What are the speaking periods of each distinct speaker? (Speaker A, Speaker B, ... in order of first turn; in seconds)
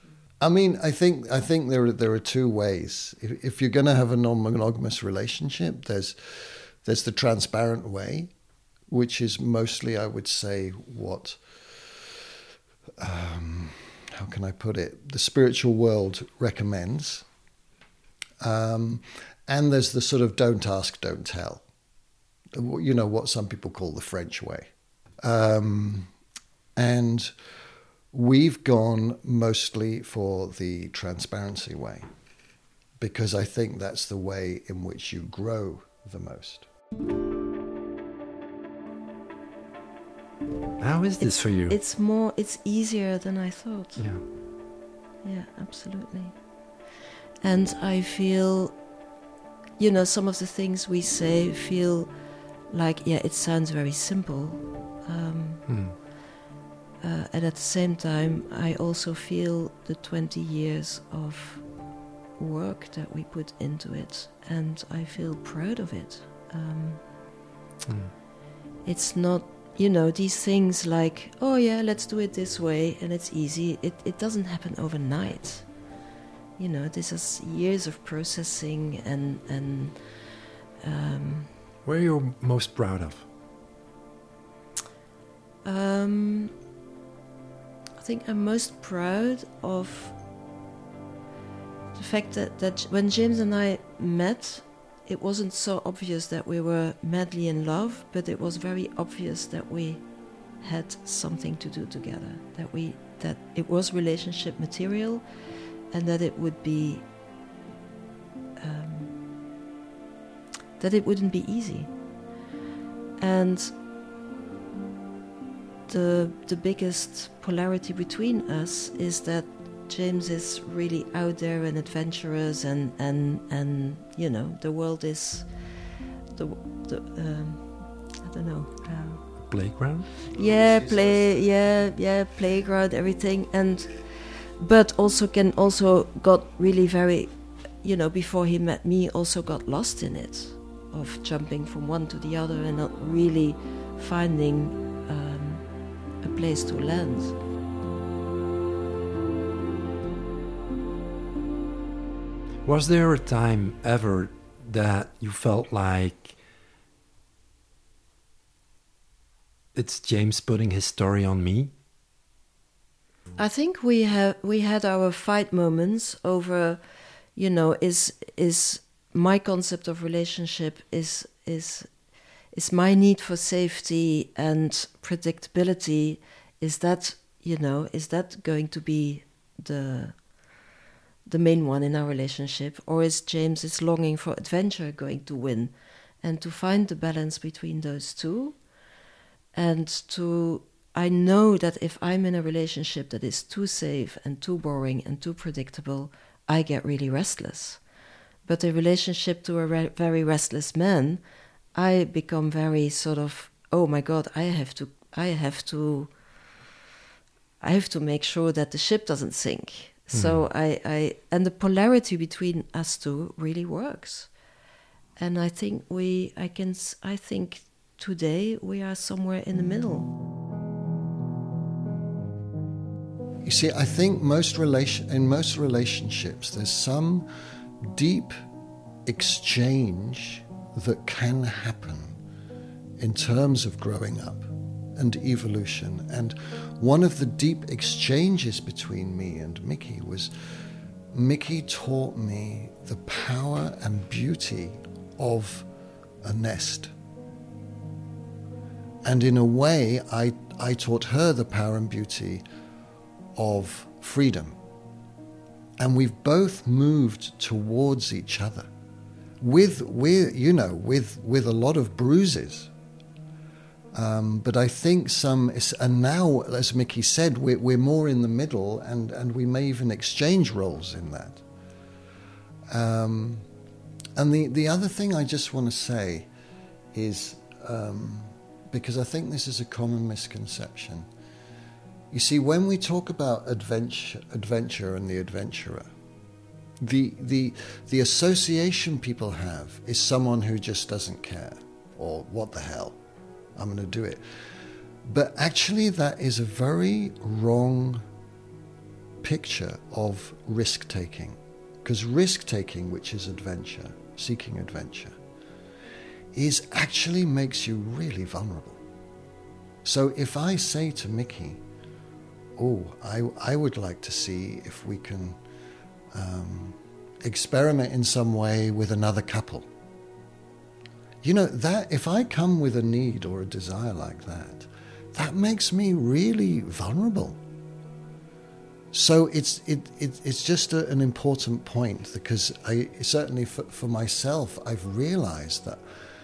Speaker A: 0.4-8.3, 8.9-12.3, 13.0-17.2, 18.4-21.6, 22.5-24.7, 25.2-26.1, 26.8-27.3, 28.1-32.1, 33.0-36.7, 223.4-227.3, 227.8-228.4, 229.1-232.2, 233.0-240.3, 241.1-245.7, 246.2-246.9, 249.0-252.4, 253.3-254.6, 255.8-258.7, 259.4-262.7, 263.9-271.4, 272.7-273.5, 274.2-276.3, 276.9-281.1, 282.1-285.9, 286.8-293.0, 293.6-294.4, 295.0-298.1, 299.2-305.2, 306.3-308.8, 309.8-311.6, 312.6-315.4, 316.1-319.7, 321.2-327.4, 328.9-335.8
Speaker B: 40.8-41.8, 44.0-44.2, 55.7-56.0, 67.9-68.1, 81.8-83.2, 129.4-130.1, 152.6-156.4, 159.7-161.7, 210.1-210.4
Speaker C: 41.2-44.1, 45.2-46.4, 47.4-48.8, 49.8-52.1, 52.7-55.7, 57.0-61.7, 62.4-67.0, 68.8-75.7, 76.6-81.5, 85.6-86.5, 88.0-90.1, 91.9-100.0, 100.6-105.2, 105.9-107.0, 108.6-109.2, 110.8-112.0, 113.2-113.8, 115.9-125.5, 126.3-129.3, 130.3-145.7, 146.2-147.3, 163.4-166.8, 167.3-171.9, 172.5-180.2, 181.2-188.6, 189.5-197.8, 198.4-201.2, 201.7-206.1, 207.6-214.3, 215.2-220.1